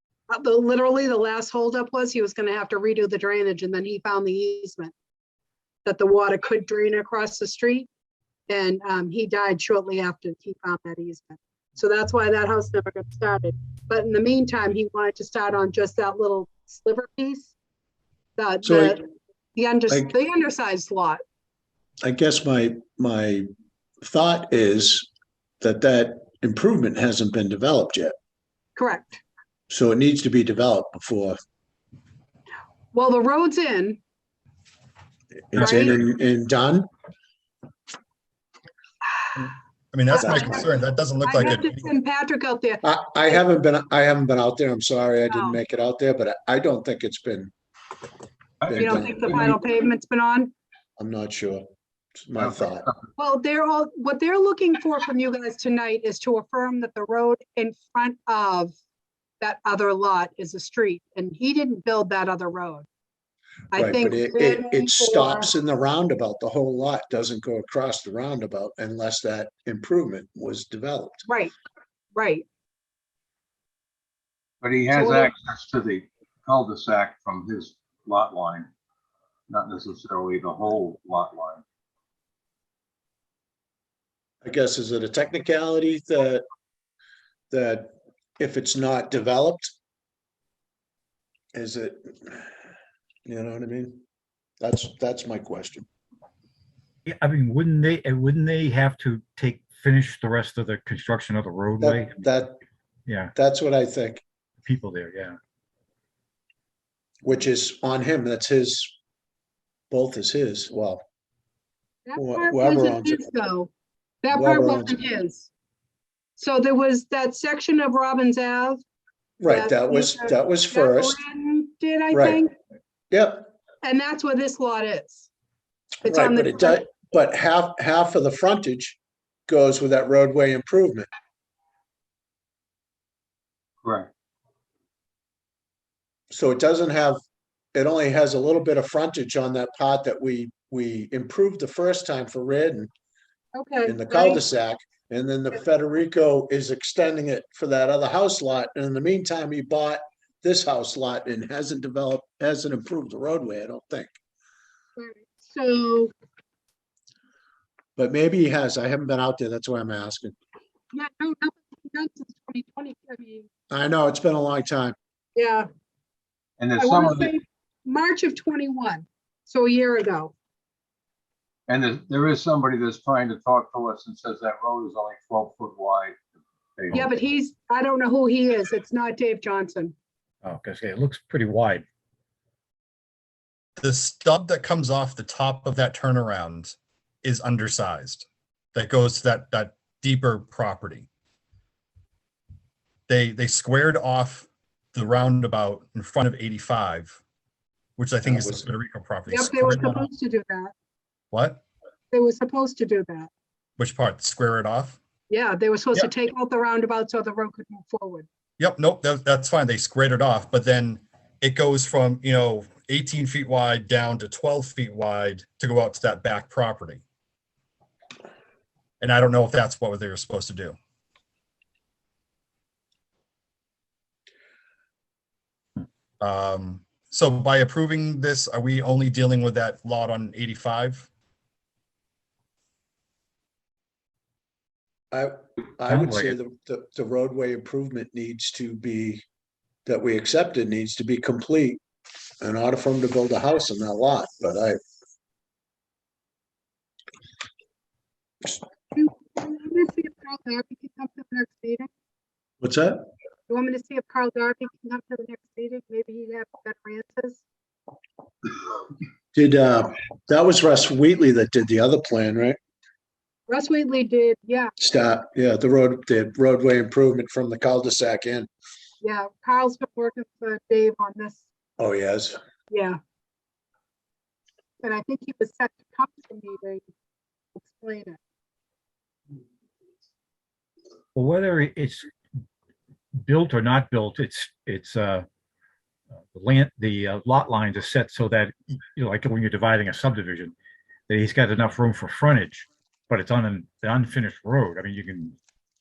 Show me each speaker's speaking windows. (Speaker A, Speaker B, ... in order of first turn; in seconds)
Speaker A: 0.3-4.9, 5.8-7.9, 8.5-17.5, 18.4-19.0, 19.5-21.2, 28.8-29.2, 32.9-34.0, 35.6-36.0, 40.1-40.6, 41.2-42.8, 45.3-45.6, 48.7-50.5, 53.2-58.7, 59.4-62.9, 63.7-65.5, 71.2-71.5, 72.1-72.5, 74.9-75.3, 112.0-113.7, 114.2-115.5, 116.4-118.8, 119.5-122.5, 123.8-125.3, 126.0-126.8, 143.5-144.4, 155.0-156.1, 160.9-163.5, 165.3-165.7, 166.8-170.3, 176.9-179.9, 199.3-200.7, 202.1-203.3, 205.3-208.3, 248.9-251.9, 253.5-257.4, 263.5-264.7, 269.0-271.4, 272.7-273.0, 274.8-276.9, 277.6-278.2
Speaker B: 18.6-19.0, 22.0-23.5, 24.0-25.1, 25.6-28.1, 29.7-31.4, 35.5-36.9, 40.2-40.6, 42.8-47.5, 48.7-49.6, 51.0-52.9, 63.7-71.2, 84.4-86.4, 87.5-89.7, 91.5-92.5, 93.2-94.0, 94.6-95.8, 101.8-102.6, 103.3-104.2, 107.2-109.0, 109.9-111.0, 112.2-113.2, 114.3-115.0, 119.4-121.2, 122.1-122.4, 123.1-123.5, 126.0-131.1, 136.3-137.2, 137.7-142.9, 143.8-154.1, 158.0-160.3, 163.7-164.9, 198.2-198.6, 235.1-239.2, 239.8-241.8, 242.4-244.8, 252.6-253.1, 259.3-262.6, 264.8-268.5, 271.8-272.4
Speaker C: 39.9-41.9, 183.8-191.1, 193.1-197.2, 198.0-200.1, 201.3-201.6, 203.8-205.0, 208.6-217.0, 219.0-220.8, 226.2-231.1
Speaker D: 48.6-48.9, 74.6-78.7, 79.5-81.6, 133.8-134.1, 166.6-167.3, 171.7-176.2, 176.8-177.1
Speaker E: 97.0-102.1, 103.1-103.3, 104.6-105.4, 180.4-181.8, 235.9-236.4, 281.1-282.1, 283.2-285.2, 286.3-290.5, 291.1-295.4